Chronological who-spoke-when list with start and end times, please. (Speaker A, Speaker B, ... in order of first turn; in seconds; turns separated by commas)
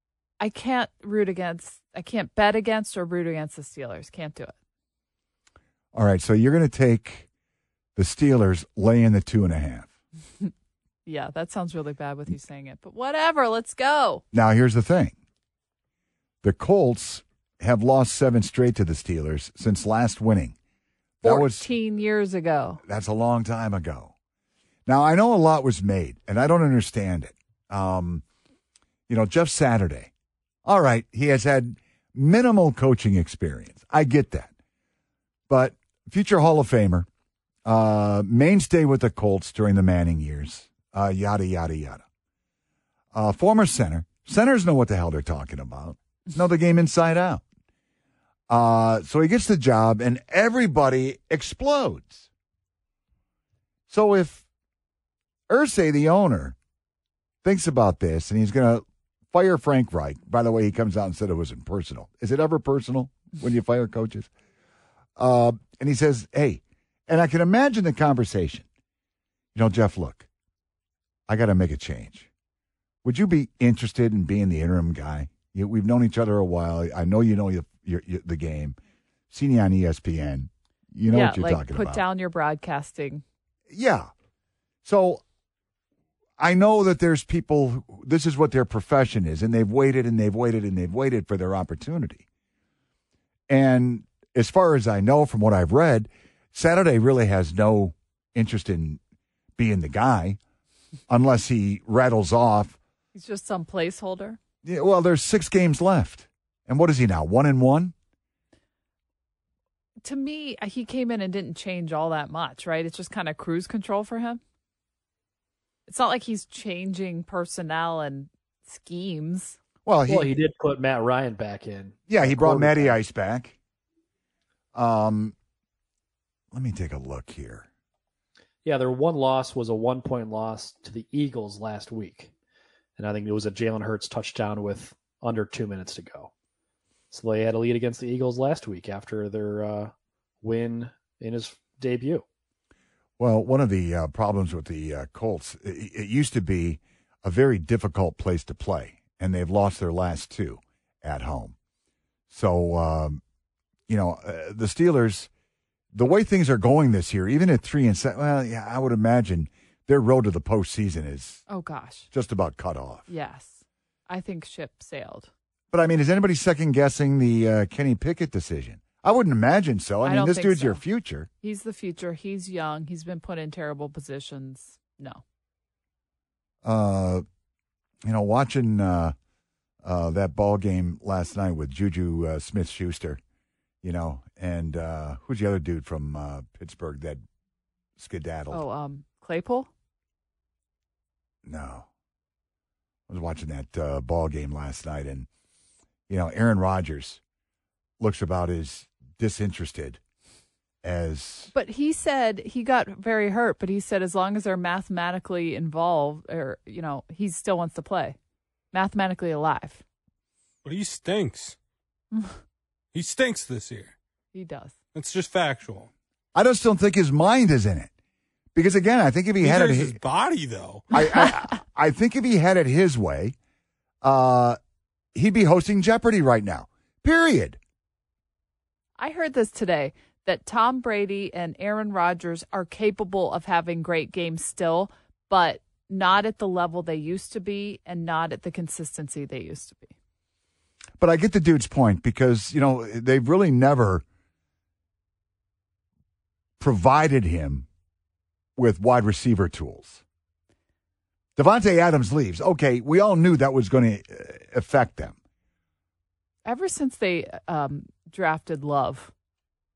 Speaker A: 0.4-4.5, Speaker B: 5.9-7.3, Speaker B: 8.0-9.9, Speaker A: 11.1-14.2, Speaker B: 14.3-15.2, Speaker B: 16.4-20.6, Speaker B: 21.2-21.7, Speaker A: 21.2-22.8, Speaker B: 22.8-24.1, Speaker B: 24.9-28.2, Speaker B: 29.1-30.1, Speaker B: 30.6-34.5, Speaker B: 35.5-37.1, Speaker B: 37.7-42.0, Speaker B: 43.1-47.4, Speaker B: 48.5-52.3, Speaker B: 53.9-54.4, Speaker B: 55.5-56.6, Speaker B: 57.4-64.3, Speaker B: 65.2-68.7, Speaker B: 69.5-70.3, Speaker B: 71.3-72.3, Speaker B: 73.0-78.8, Speaker B: 79.3-82.0, Speaker A: 81.1-83.2, Speaker B: 83.7-84.1, Speaker B: 84.8-85.2, Speaker B: 86.4-92.2, Speaker B: 93.5-99.0, Speaker B: 99.6-100.4, Speaker B: 101.1-102.8, Speaker A: 103.1-104.4, Speaker B: 104.6-107.9, Speaker A: 110.0-114.4, Speaker A: 115.9-119.6, Speaker B: 119.8-120.3, Speaker C: 120.1-123.0, Speaker B: 122.1-123.5, Speaker B: 124.8-125.3, Speaker B: 126.5-127.7, Speaker C: 128.6-132.3, Speaker C: 133.0-136.3, Speaker C: 137.1-142.2, Speaker B: 143.2-151.6, Speaker B: 152.3-153.2, Speaker B: 153.9-155.3, Speaker B: 155.9-161.4, Speaker A: 161.5-162.1, Speaker B: 162.1-163.1, Speaker A: 163.1-163.6, Speaker A: 164.1-165.3, Speaker B: 165.7-171.3, Speaker A: 170.1-170.8, Speaker A: 171.4-175.2, Speaker B: 176.6-177.2, Speaker B: 178.1-179.1, Speaker B: 179.8-183.2, Speaker B: 183.8-187.2, Speaker B: 188.0-188.6, Speaker A: 188.5-189.7, Speaker B: 191.4-191.9, Speaker B: 193.1-195.3, Speaker B: 196.1-197.2, Speaker B: 198.0-200.0, Speaker B: 200.8-201.5, Speaker A: 201.5-208.2, Speaker A: 208.7-209.8, Speaker D: 210.6-211.6, Speaker A: 212.1-212.4, Speaker D: 212.9-213.9, Speaker A: 214.3-214.7, Speaker D: 214.9-215.9, Speaker B: 216.3-217.9, Speaker B: 218.6-220.0, Speaker D: 219.4-220.9, Speaker B: 220.9-223.3, Speaker A: 220.9-221.4, Speaker B: 224.0-224.6, Speaker B: 225.2-227.6, Speaker A: 229.0-239.9, Speaker B: 241.0-244.0, Speaker B: 246.6-247.7, Speaker B: 248.6-250.0, Speaker B: 251.4-255.2, Speaker A: 256.4-259.1